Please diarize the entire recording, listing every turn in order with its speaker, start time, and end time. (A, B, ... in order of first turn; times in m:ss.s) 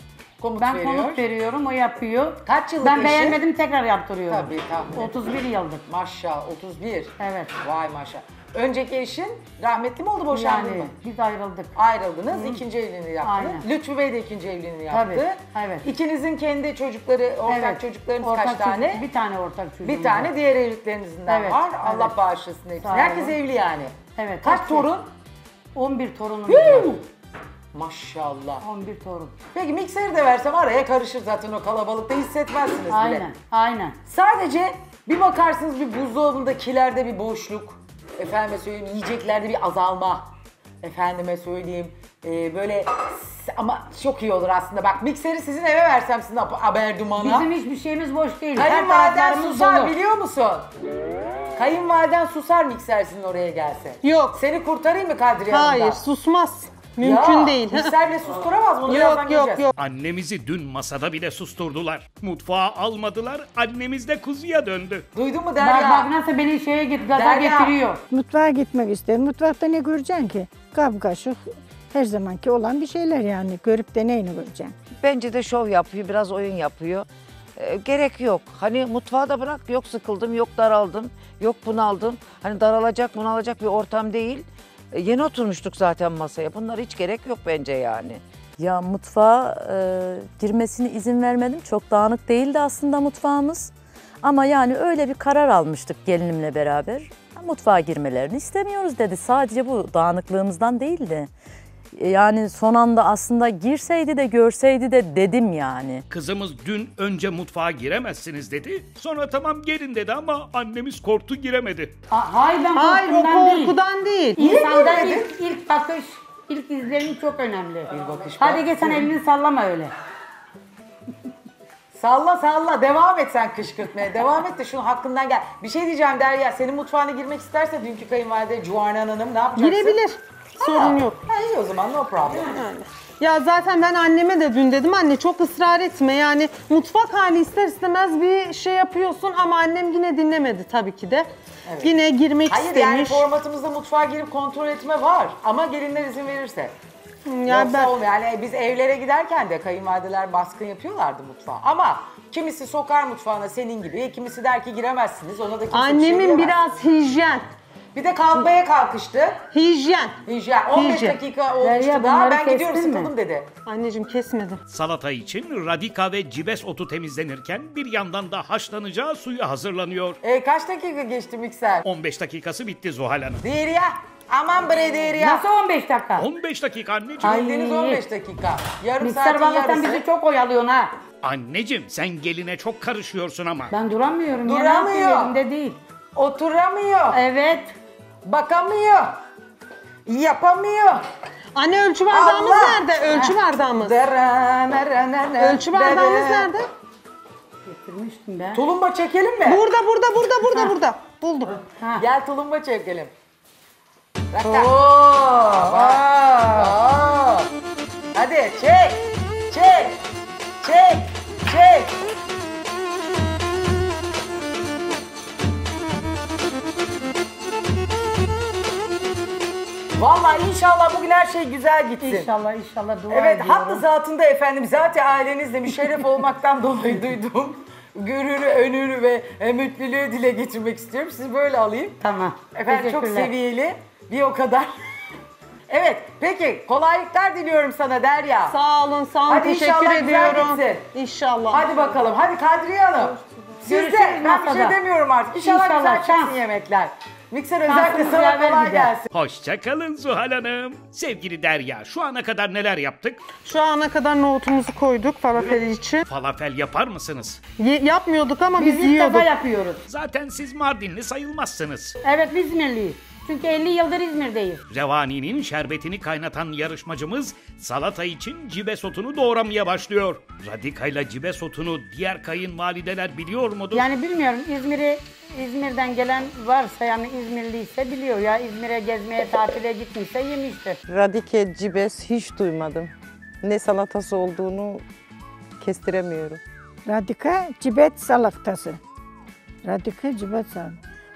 0:00.4-0:01.2 A
0:00.6-0:05.8 B
0:02.4-0:03.4 A
0:04.3-0:05.1 A
0:05.9-0:10.9 A
0:07.2-0:07.6 B
0:10.3-0:11.7 B
0:11.8-0:19.0 A
0:12.3-0:12.6 B
0:13.2-0:13.7 B
0:14.9-0:15.9 B
0:17.5-0:20.4 B
0:19.8-0:25.1 A
0:21.3-0:22.2 B
0:22.8-0:23.4 B
0:24.1-0:24.9 B
0:25.8-0:27.0 B
0:26.5-0:27.0 A
0:27.7-0:28.6 A
0:28.6-0:29.4 B
0:29.5-0:33.2 A
0:32.9-0:34.0 B
0:34.1-0:40.3 A
0:40.8-0:47.5 A
0:47.2-0:50.0 B
0:48.6-0:50.7 A
0:51.6-0:56.0 A
0:54.0-0:54.4 C
0:55.5-0:57.9 C
0:57.0-0:59.7 A
0:58.9-0:59.7 C
0:59.8-1:05.1 D
1:05.1-1:06.1 A
1:05.6-1:08.0 B
1:07.1-1:07.8 A
1:08.1-1:14.8 E
1:15.0-1:28.2 F
1:28.6-1:41.3 G
1:42.0-1:46.0 G
1:46.1-1:51.9 D
1:52.1-1:53.8 B
1:52.8-1:54.6 C
1:54.4-1:59.9 B
1:54.4-1:55.3 A
1:57.9-1:59.1 A
2:01.9-2:10.0 A
2:09.6-2:11.2 C
2:10.6-2:12.6 A
2:12.5-2:21.3 C
2:21.7-2:21.9 A
2:21.8-2:23.3 C
2:22.5-2:26.7 A
2:27.3-2:28.0 C
2:27.5-2:36.6 A
2:35.7-2:37.4 C
2:37.9-2:39.4 A
2:39.5-2:41.2 C
2:40.3-2:43.5 A
2:41.6-2:43.1 B
2:43.7-2:44.6 C
2:44.7-2:50.2 D
2:50.2-2:51.9 A
2:51.8-2:53.4 D
2:53.4-2:55.5 A
2:55.2-2:56.3 B
2:56.2-2:57.4 D
2:57.2-2:58.0 B
2:57.2-3:00.0 A
2:59.0-3:00.9 B
3:01.2-3:03.7 D
3:03.7-3:05.8 B
3:04.4-3:05.4 A
3:06.2-3:07.2 A
3:07.1-3:07.7 B
3:08.2-3:09.2 A
3:10.1-3:11.1 A
3:11.6-3:14.0 C
3:12.1-3:16.5 A
3:15.4-3:16.7 C
3:17.6-3:18.6 B
3:18.5-3:19.7 A
3:19.4-3:21.6 C
3:21.8-3:22.1 B
3:22.0-3:23.1 A
3:24.3-3:27.5 A
3:25.6-3:26.7 B
3:28.2-3:30.0 A
3:30.6-3:32.0 A
3:40.0-3:42.3 A
3:42.0-3:43.8 B
3:43.1-3:52.0 A
3:52.0-3:53.3 B
3:52.5-3:54.7 A
3:55.7-3:58.6 A
3:58.5-4:02.0 C
3:59.3-4:00.9 A
4:01.5-4:09.1 A
4:03.7-4:04.8 B
4:05.3-4:06.4 B
4:07.7-4:08.9 B
4:09.1-4:13.2 D
4:13.4-4:16.0 C
4:16.1-4:17.4 D
4:17.6-4:19.3 C
4:18.6-4:19.8 B
4:19.9-4:22.0 D
4:22.0-4:24.6 B
4:24.7-4:33.9 D
4:33.7-4:40.8 B
4:40.9-4:44.8 H
4:45.6-4:46.4 H
4:46.9-4:48.8 E
4:49.6-4:50.8 E